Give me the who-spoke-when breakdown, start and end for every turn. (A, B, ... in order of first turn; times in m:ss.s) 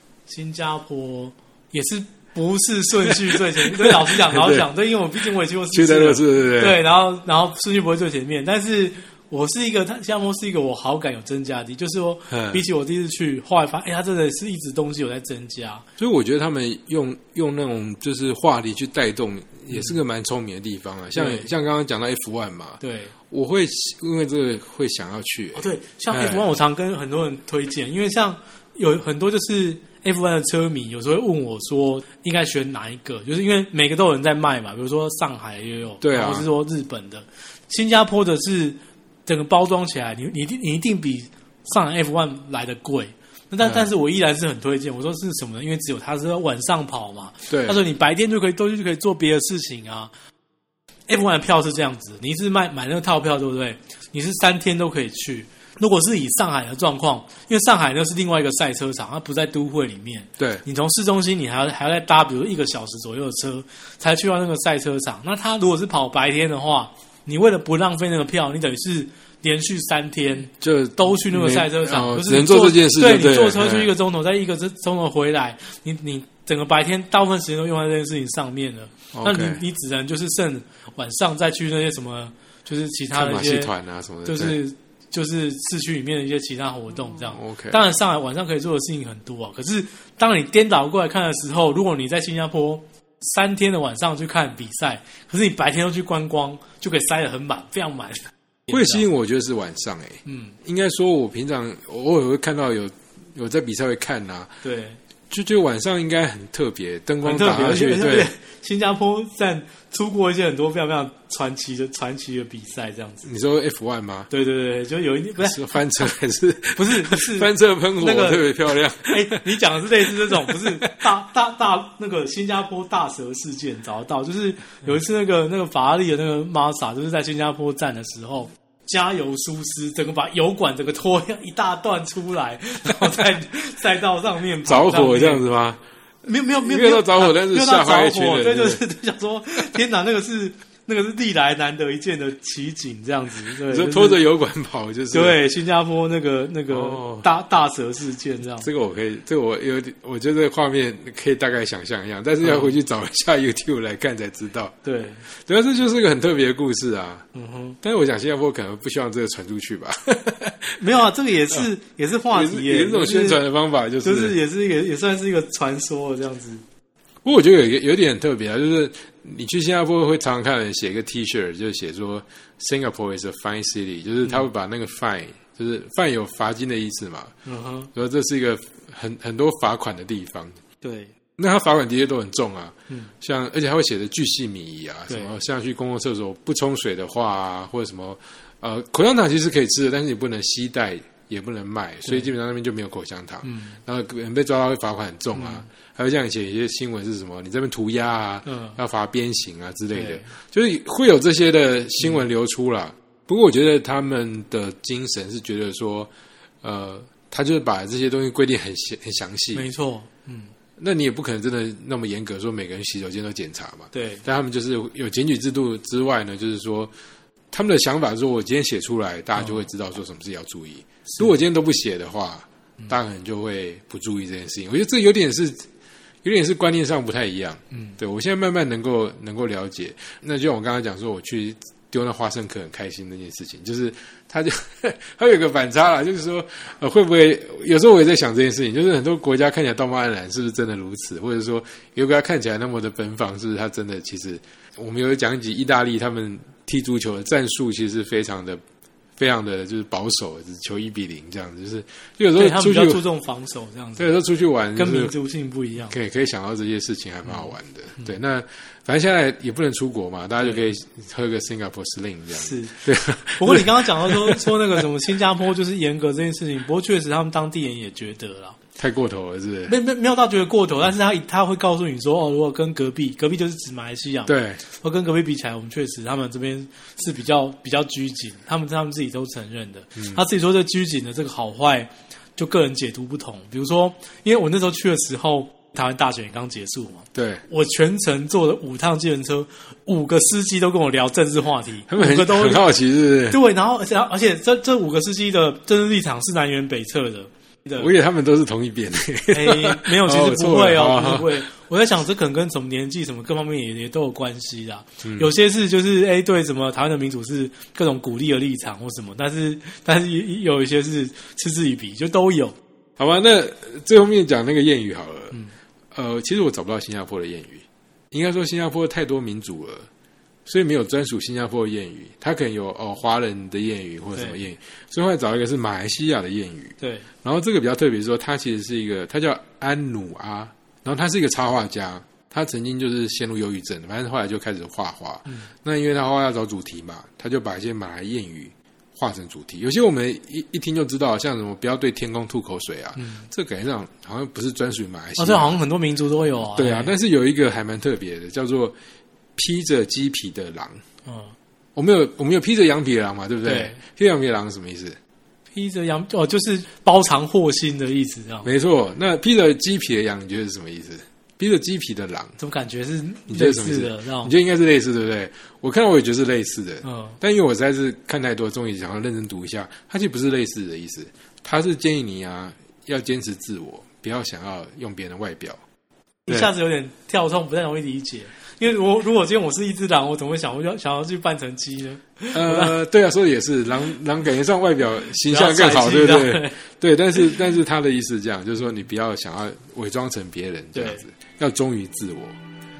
0:00.3-0:15.8 A
0:03.1-0:04.6 B
0:05.7-0:06.8 B
0:12.3-0:12.6 B
0:16.0-0:26.4 B
0:19.7-0:20.0 A
0:21.1-0:21.5 A
0:22.8-0:23.1 A
0:25.5-0:50.1 A
0:36.0-0:36.5 B
0:43.6-0:43.9 B
0:47.5-0:47.8 B
0:51.1-1:23.7 A
1:00.4-1:00.6 B
1:10.6-1:13.9 B
1:19.1-1:19.6 B
1:23.1-1:24.6 B
1:24.2-1:39.0 A
1:27.3-1:27.8 B
1:38.7-1:44.5 B
1:40.2-1:40.5 A
1:44.6-1:45.0 A
1:45.3-1:48.3 B
1:47.2-1:53.3 A
1:53.2-1:54.3 B
1:54.3-1:55.6 A
1:55.4-1:59.5 B
1:56.8-2:15.4 A
2:00.3-2:01.1 B
2:14.6-2:15.8 B
2:16.2-2:24.2 A
2:16.5-2:18.8 B
2:23.6-2:25.4 B
2:25.1-2:28.7 A
2:26.7-2:27.3 B
2:28.6-2:34.8 B
2:32.4-2:32.7 A
2:34.8-2:35.2 A
2:35.3-2:37.2 B
2:37.3-2:37.8 A
2:37.8-2:40.8 B
2:40.8-2:43.4 A
2:42.3-2:44.4 B
2:44.0-2:46.6 A
2:47.2-2:57.3 B
2:57.4-2:57.9 A
2:57.9-3:00.6 B
3:00.8-3:01.1 A
3:01.4-3:26.1 B
3:13.4-3:13.8 A
3:15.3-3:15.6 A
3:18.4-3:18.8 A
3:19.9-3:20.3 A
3:26.6-3:29.6 B
3:29.5-3:30.5 A
3:30.8-3:36.9 B
3:33.9-3:34.2 A
3:37.5-3:45.7 B
3:39.4-3:39.6 A
3:46.2-4:08.6 B
4:09.2-4:13.0 B
4:12.3-4:14.1 A
4:14.0-4:15.1 B
4:14.8-4:15.9 A
4:15.9-4:24.8 B
4:22.4-4:22.8 A
4:23.4-4:28.6 A
4:28.8-4:29.7 B
4:29.7-4:52.6 A
4:34.3-4:34.6 B
4:40.0-4:40.2 B
4:47.1-4:47.4 B
4:51.9-4:53.4 B
4:53.3-4:57.9 A
4:57.8-5:01.4 B
4:59.3-5:12.5 A
5:05.0-5:05.3 B
5:13.0-5:15.4 B
5:15.9-5:19.9 B
5:20.4-5:45.6 B
5:26.8-5:27.1 A
5:43.0-5:43.3 A
5:45.2-5:46.9 A
5:46.5-5:48.8 B
5:49.4-5:50.8 B
5:51.0-5:51.3 A
5:51.7-5:55.0 B
5:53.4-5:53.8 A
5:55.5-5:58.5 A
5:58.4-6:02.4 B
6:02.4-6:04.3 A
6:03.3-6:15.6 B
6:06.8-6:07.2 A
6:16.2-6:22.8 A
6:22.3-6:32.4 B
6:25.3-6:26.6 A
6:30.7-6:31.0 A